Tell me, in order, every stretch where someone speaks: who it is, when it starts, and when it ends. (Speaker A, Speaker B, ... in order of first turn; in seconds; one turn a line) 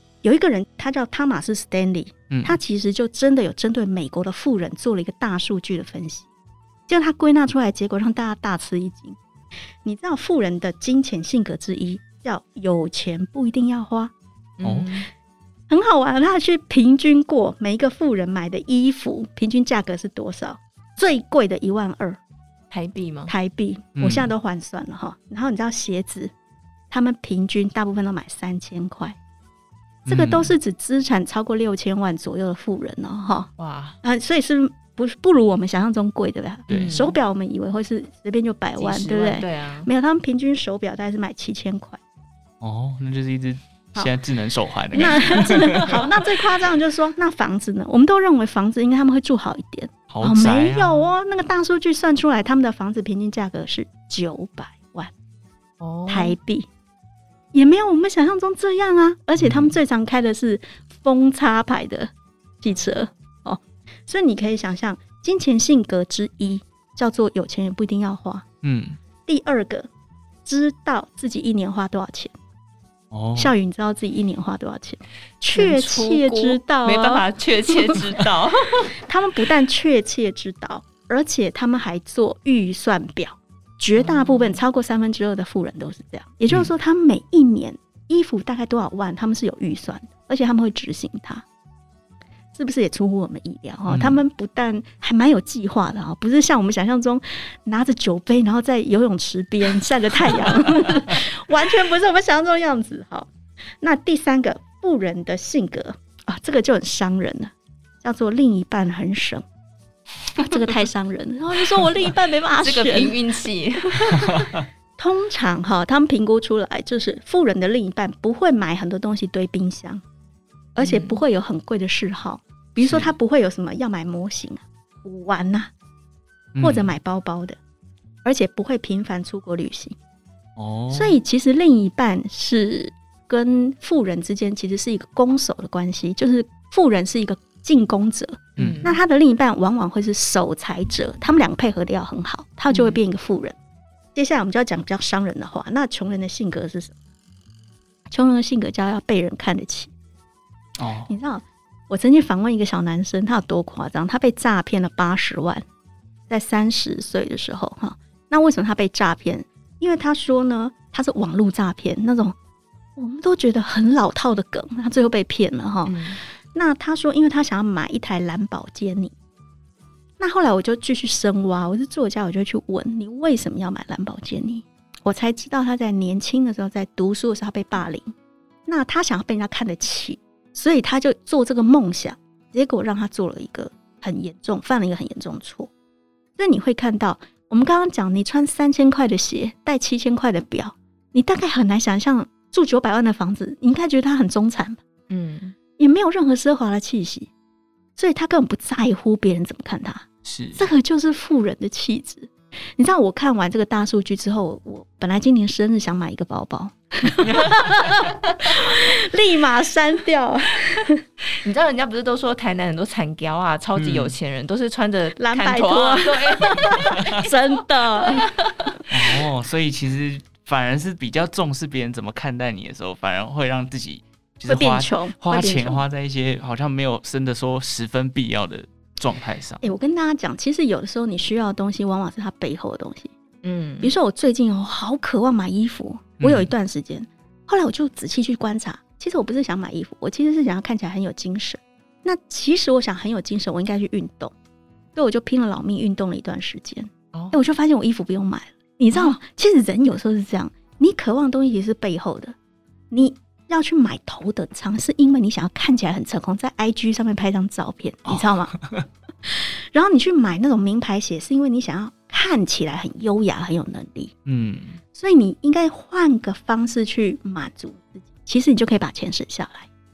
Speaker A: 0.2-6.3
Speaker B: 2.3-2.6
Speaker A: 6.9-9.2
Speaker A: 9.8-14.1
Speaker C: 14.6-15.1
Speaker B: 14.6-14.9
Speaker A: 15.7-22.2
Speaker C: 22.7-23.3
Speaker A: 23.3-26.3
Speaker B: 23.9-24.3
Speaker A: 26.9-29.1
Speaker B: 30.1-30.5
Speaker A: 30.1-33.5
Speaker C: 33.6-34.0
Speaker A: 34.0-42.0
Speaker B: 36.7-37.0
Speaker C: 36.7-37.1
Speaker C: 38.8-39.9
Speaker B: 42.6-46.0
Speaker A: 44.9-55.1
Speaker C: 45.0-46.0
Speaker B: 50.1-51.1
Speaker C: 55.8-56.3
Speaker A: 56.1-56.7
Speaker A: 57.5-68.5
Speaker B: 59.4-59.7
Speaker B: 68.6-69.0
Speaker A: 69.2-69.9
Speaker A: 70.4-72.3
Speaker B: 73.1-73.5
Speaker A: 73.3-77.2
Speaker C: 75.5-78.9
Speaker A: 79.0-91.4
Speaker C: 84.0-84.6
Speaker A: 92.5-103.3
Speaker B: 93.9-94.2
Speaker A: 103.8-109.4
Speaker A: 110.4-113.2
Speaker C: 112.6-114.5
Speaker A: 113.9-114.3
Speaker A: 115.0-120.0
Speaker A: 120.8-125.7
Speaker C: 120.8-121.2
Speaker B: 122.8-123.1
Speaker B: 126.5-126.9
Speaker A: 126.6-127.6
Speaker A: 128.2-129.9
Speaker B: 130.6-131.2
Speaker A: 130.9-143.6
Speaker B: 138.6-138.8
Speaker C: 138.6-139.0
Speaker C: 142.7-143.0
Speaker A: 144.1-146.9
Speaker A: 148.1-149.9
Speaker B: 150.8-151.1
Speaker A: 151.1-155.6
Speaker A: 156.3-162.3
Speaker A: 163.0-166.0
Speaker C: 165.8-166.2
Speaker A: 166.5-169.1
Speaker A: 170.2-178.1
Speaker A: 178.7-185.7
Speaker A: 186.4-194.8
Speaker C: 195.1-195.5
Speaker A: 195.8-197.3
Speaker A: 198.0-211.0
Speaker B: 200.2-200.6
Speaker C: 211.4-217.0
Speaker B: 213.8-214.1
Speaker A: 215.2-218.3
Speaker C: 218.0-218.5
Speaker B: 218.9-229.6
Speaker A: 224.5-225.8
Speaker A: 229.6-233.1
Speaker C: 233.4-233.9
Speaker A: 233.8-244.3
Speaker B: 236.2-236.5
Speaker A: 244.9-252.3
Speaker C: 248.9-249.2
Speaker A: 252.9-258.6
Speaker B: 258.1-258.8
Speaker A: 259.2-264.1
Speaker B: 264.2-264.8
Speaker A: 264.9-269.7